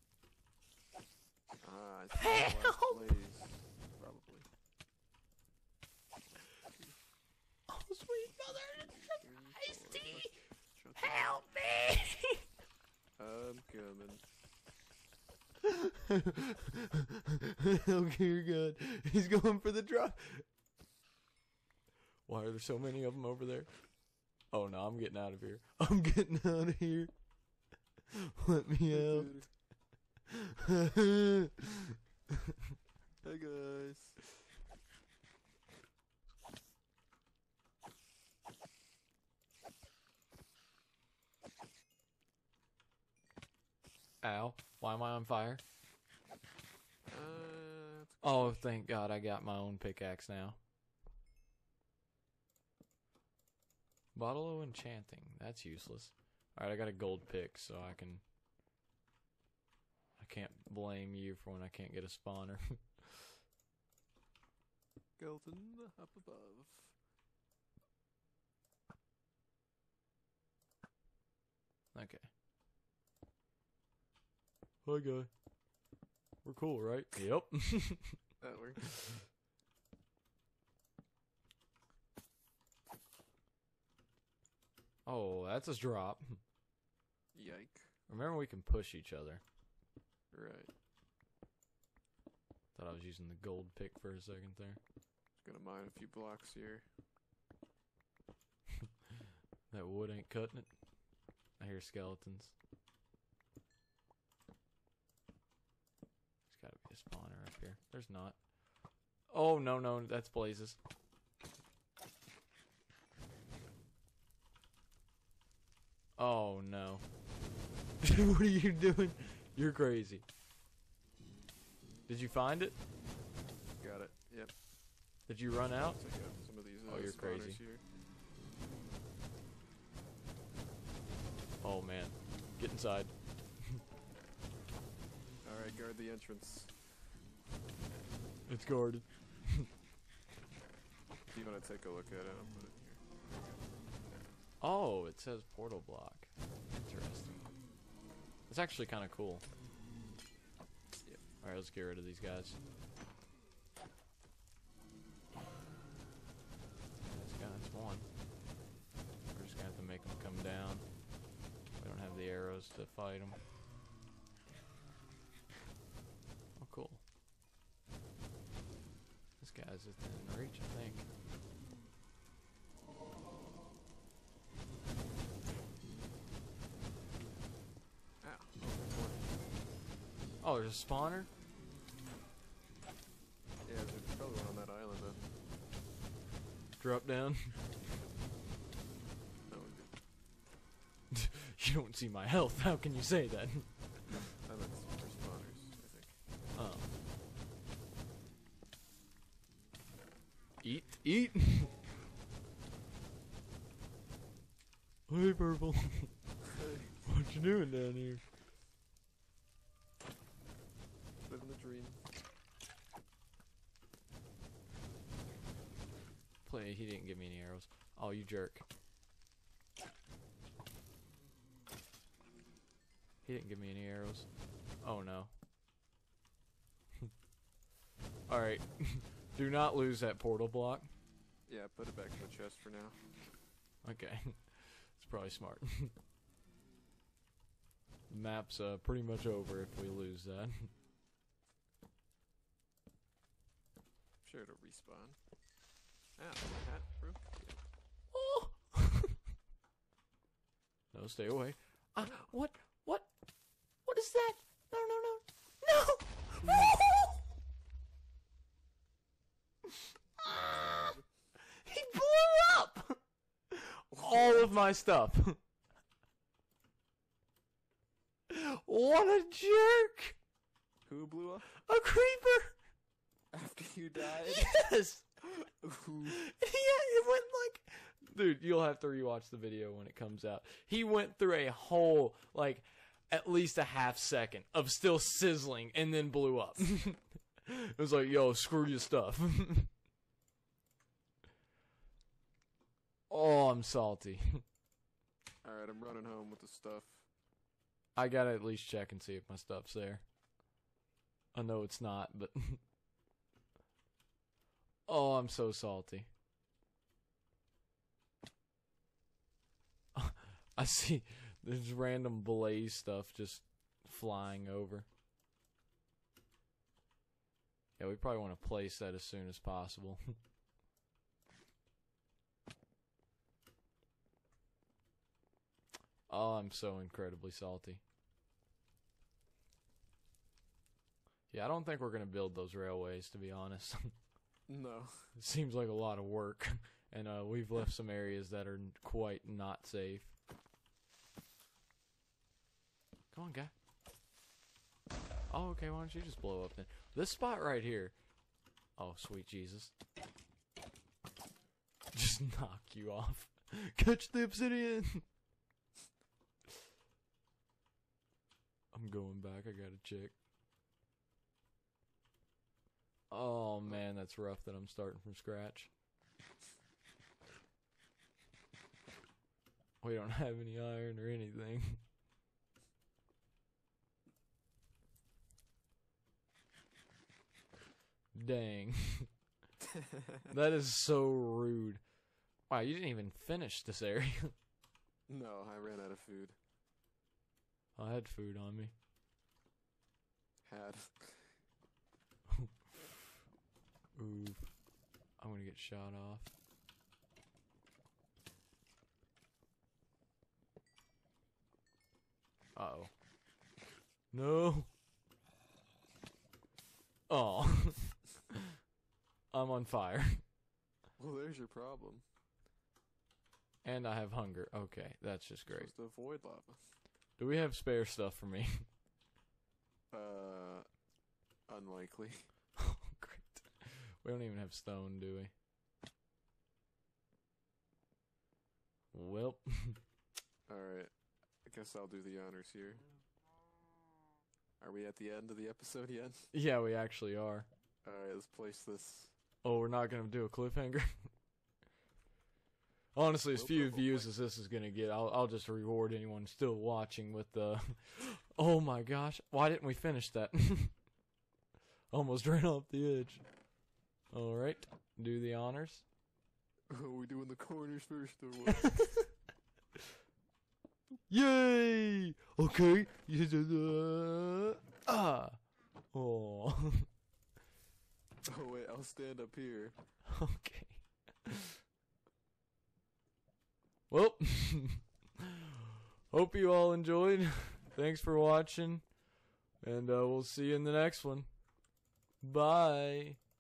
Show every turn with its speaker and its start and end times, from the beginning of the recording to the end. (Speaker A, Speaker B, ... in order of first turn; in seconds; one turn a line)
Speaker A: 1.6-4.5
Speaker B: 2.2-3.0
Speaker B: 7.7-10.3
Speaker A: 8.7-11.4
Speaker B: 11.0-12.4
Speaker A: 13.2-14.2
Speaker B: 15.6-20.4
Speaker B: 22.2-27.3
Speaker B: 28.4-29.8
Speaker A: 28.9-29.5
Speaker B: 30.7-31.6
Speaker A: 33.2-34.2
Speaker B: 44.2-45.6
Speaker A: 47.0-48.7
Speaker B: 48.2-50.6
Speaker B: 54.1-58.2
Speaker B: 60.2-63.3
Speaker A: 65.2-66.9
Speaker B: 71.9-72.3
Speaker B: 74.8-75.3
Speaker B: 76.4-78.3
Speaker A: 78.4-78.9
Speaker B: 78.9-79.2
Speaker B: 85.0-86.4
Speaker A: 87.3-87.9
Speaker B: 88.1-89.4
Speaker A: 90.3-90.7
Speaker B: 92.7-94.8
Speaker A: 95.4-96.8
Speaker B: 99.7-100.7
Speaker B: 101.6-102.5
Speaker B: 106.5-108.5
Speaker B: 109.3-110.8
Speaker B: 116.2-117.0
Speaker B: 118.0-120.2
Speaker B: 122.1-122.8
Speaker A: 123.8-124.5
Speaker B: 125.3-126.0
Speaker A: 125.7-127.8
Speaker B: 126.9-127.6
Speaker B: 131.6-133.8
Speaker A: 135.4-136.9
Speaker B: 138.5-139.7
Speaker A: 141.3-143.6
Speaker B: 144.6-147.5
Speaker B: 148.5-149.4
Speaker B: 151.4-152.6
Speaker B: 157.0-158.1
Speaker B: 159.3-160.9
Speaker B: 161.8-163.4
Speaker B: 166.6-167.0
Speaker B: 169.4-171.1
Speaker A: 178.2-179.4
Speaker B: 180.4-181.3
Speaker A: 183.6-185.3
Speaker B: 186.8-187.6
Speaker A: 189.5-189.9
Speaker B: 191.1-194.2
Speaker A: 194.1-196.2
Speaker B: 196.5-196.9
Speaker B: 200.6-201.8
Speaker B: 205.1-206.3
Speaker A: 206.5-207.0
Speaker B: 207.0-208.2
Speaker A: 211.2-212.0
Speaker B: 216.4-218.6
Speaker B: 223.2-224.3
Speaker B: 224.8-225.3
Speaker B: 228.3-230.9
Speaker A: 231.5-233.1
Speaker B: 233.8-235.9
Speaker B: 238.1-240.7
Speaker A: 244.2-245.2
Speaker A: 246.2-247.6
Speaker B: 248.1-249.2
Speaker B: 250.9-253.1
Speaker B: 253.8-257.2
Speaker A: 256.4-256.7
Speaker B: 260.2-263.0
Speaker A: 260.6-261.0
Speaker B: 263.5-265.4
Speaker A: 263.9-264.6
Speaker B: 268.3-270.2
Speaker A: 270.9-271.5
Speaker B: 271.5-272.6
Speaker A: 273.3-274.6
Speaker B: 274.1-275.2
Speaker A: 275.2-276.2
Speaker B: 276.1-289.7
Speaker B: 293.1-294.4
Speaker A: 295.4-297.1
Speaker B: 297.9-300.1
Speaker B: 301.3-302.6
Speaker B: 304.9-306.1
Speaker B: 309.9-314.9
Speaker B: 317.8-320.2
Speaker B: 326.1-327.8
Speaker B: 331.3-333.9
Speaker A: 334.5-335.1
Speaker B: 335.1-340.1
Speaker B: 343.1-343.5
Speaker B: 345.3-348.0
Speaker B: 348.8-349.7
Speaker B: 351.9-355.1
Speaker B: 358.7-360.1
Speaker B: 363.1-365.7
Speaker B: 369.8-371.8
Speaker B: 378.1-379.1
Speaker A: 379.6-380.2
Speaker B: 380.3-381.8
Speaker B: 382.5-384.3
Speaker A: 385.1-386.4
Speaker B: 387.8-388.7
Speaker A: 390.4-391.4
Speaker B: 393.9-394.5
Speaker B: 395.2-396.3
Speaker B: 402.5-402.9
Speaker B: 404.1-404.7
Speaker B: 407.1-408.2
Speaker B: 409.3-410.2
Speaker A: 411.0-412.0
Speaker B: 413.6-415.7
Speaker A: 415.5-416.7
Speaker B: 417.2-418.6
Speaker A: 419.9-420.7
Speaker A: 421.5-422.3
Speaker B: 422.6-425.3
Speaker B: 428.9-429.8
Speaker A: 430.5-430.9
Speaker A: 431.4-432.8
Speaker A: 434.6-436.3
Speaker B: 436.3-437.5
Speaker A: 437.8-439.1
Speaker B: 439.4-441.1
Speaker B: 442.9-450.9
Speaker A: 443.3-444.1
Speaker B: 451.9-453.2
Speaker B: 454.1-455.8
Speaker A: 456.7-458.8
Speaker B: 458.5-459.1
Speaker B: 461.1-466.9
Speaker A: 468.2-469.8
Speaker B: 470.1-471.5
Speaker B: 473.9-475.2
Speaker B: 476.1-478.9
Speaker B: 479.6-481.4
Speaker B: 482.2-483.2